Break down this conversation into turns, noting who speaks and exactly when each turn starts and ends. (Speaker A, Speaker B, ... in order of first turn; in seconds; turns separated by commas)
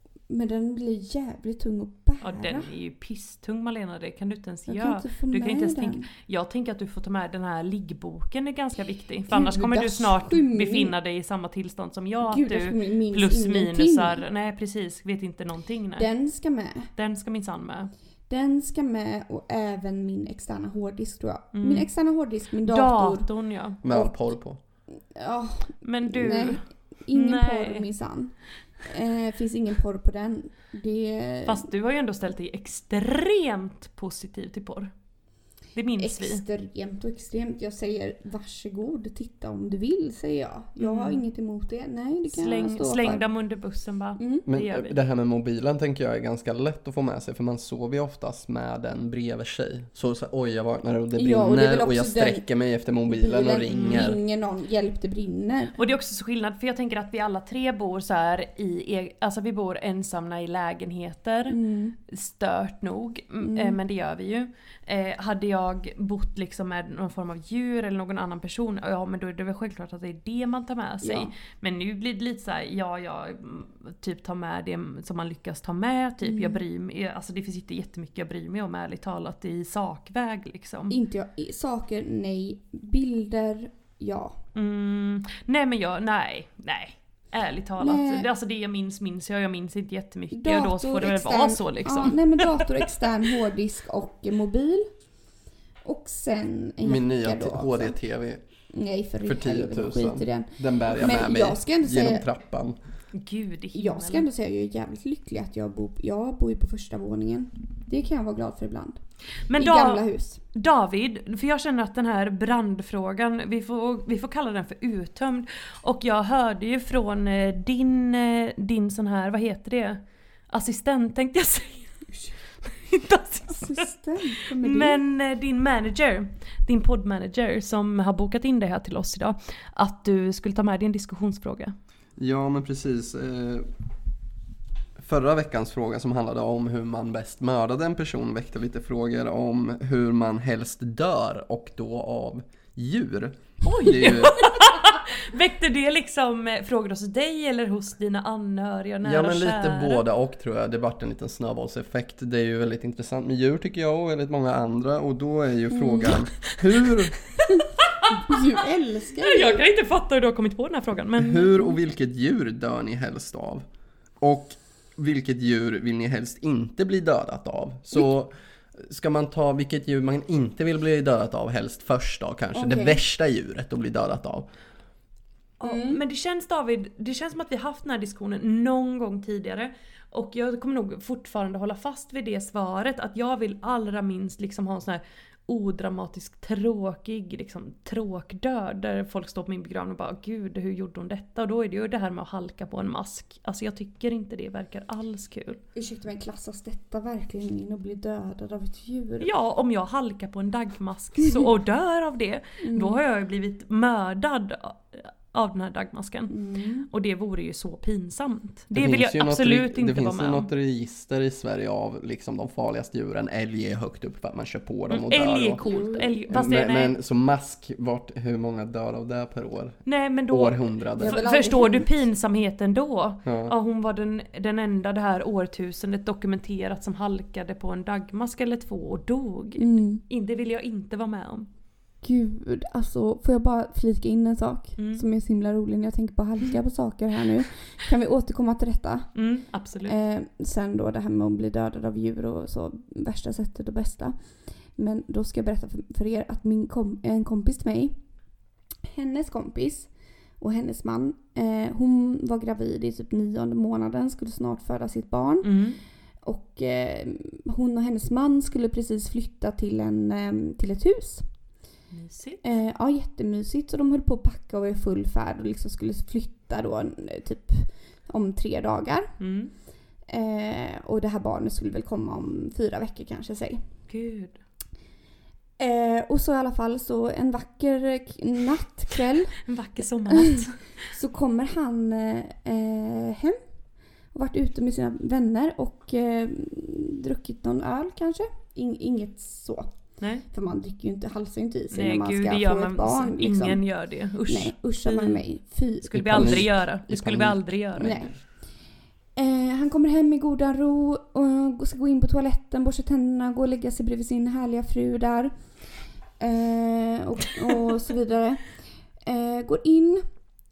Speaker A: 0.3-2.7, Speaker B: 2.2-16.1, Speaker A: 4.7-6.1, Speaker A: 9.3-10.9, Speaker A: 12.2-14.2, Speaker A: 15.9-16.9, Speaker B: 16.9-17.9, Speaker A: 18.3-23.3, Speaker B: 21.5-21.9, Speaker B: 22.6-23.8, Speaker C: 23.8-24.6, Speaker A: 23.9-24.1, Speaker A: 25.1-31.7, Speaker B: 25.8-27.9, Speaker B: 31.4-34.9, Speaker B: 35.7-36.4, Speaker A: 36.0-43.2, Speaker B: 40.8-41.2, Speaker B: 42.3-45.0, Speaker A: 44.2-44.4, Speaker C: 44.5-54.2, Speaker A: 51.1-52.4, Speaker A: 53.1-55.8, Speaker B: 53.7-54.1, Speaker B: 55.8-61.6, Speaker A: 61.5-62.0, Speaker B: 62.1-81.0, Speaker A: 63.4-63.8, Speaker A: 71.0-71.3, Speaker A: 76.2-76.6, Speaker A: 80.9-84.3, Speaker B: 84.5-92.8, Speaker A: 87.8-88.3, Speaker A: 90.3-94.9, Speaker A: 95.8-98.0, Speaker C: 96.8-98.4, Speaker A: 98.7-102.2, Speaker C: 99.2-102.8, Speaker B: 103.1-104.3, Speaker A: 103.7-109.0, Speaker B: 109.5-122.0, Speaker A: 109.5-110.4, Speaker B: 122.6-123.9, Speaker A: 123.5-125.0, Speaker B: 124.6-131.7, Speaker C: 132.2-133.7, Speaker C: 135.0-144.5, Speaker B: 143.6-150.0, Speaker C: 149.0-157.2, Speaker A: 155.7-156.2, Speaker B: 157.4-158.4, Speaker A: 157.5-159.6, Speaker B: 159.2-161.6, Speaker C: 161.2-163.7, Speaker C: 164.2-174.5, Speaker A: 172.5-173.0, Speaker B: 175.6-195.6, Speaker A: 175.6-176.0, Speaker A: 195.7-199.3, Speaker B: 199.2-206.3, Speaker A: 202.6-203.0, Speaker A: 206.3-206.9, Speaker B: 206.9-210.5, Speaker C: 208.7-215.6, Speaker B: 214.9-216.9, Speaker A: 215.6-216.1, Speaker C: 216.3-221.2, Speaker B: 219.8-231.5, Speaker A: 221.0-221.9, Speaker C: 223.2-223.5, Speaker A: 229.6-230.0, Speaker A: 232.0-239.1, Speaker B: 234.8-235.0, Speaker B: 239.1-240.0, Speaker A: 239.8-244.1, Speaker A: 244.8-248.0, Speaker A: 248.9-255.5, Speaker B: 255.4-255.8, Speaker A: 256.2-261.2, Speaker B: 261.9-262.5, Speaker A: 262.4-269.1, Speaker B: 269.2-269.5, Speaker A: 270.1-273.6, Speaker B: 273.9-274.4, Speaker A: 275.6-279.4, Speaker B: 279.4-280.6, Speaker A: 280.1-283.4, Speaker A: 284.1-289.7, Speaker A: 290.3-293.6, Speaker B: 291.7-295.2, Speaker A: 294.3-296.4, Speaker B: 295.8-297.9, Speaker C: 296.0-298.1, Speaker A: 297.8-298.1, Speaker A: 299.1-305.3, Speaker A: 306.2-308.4, Speaker A: 309.0-310.0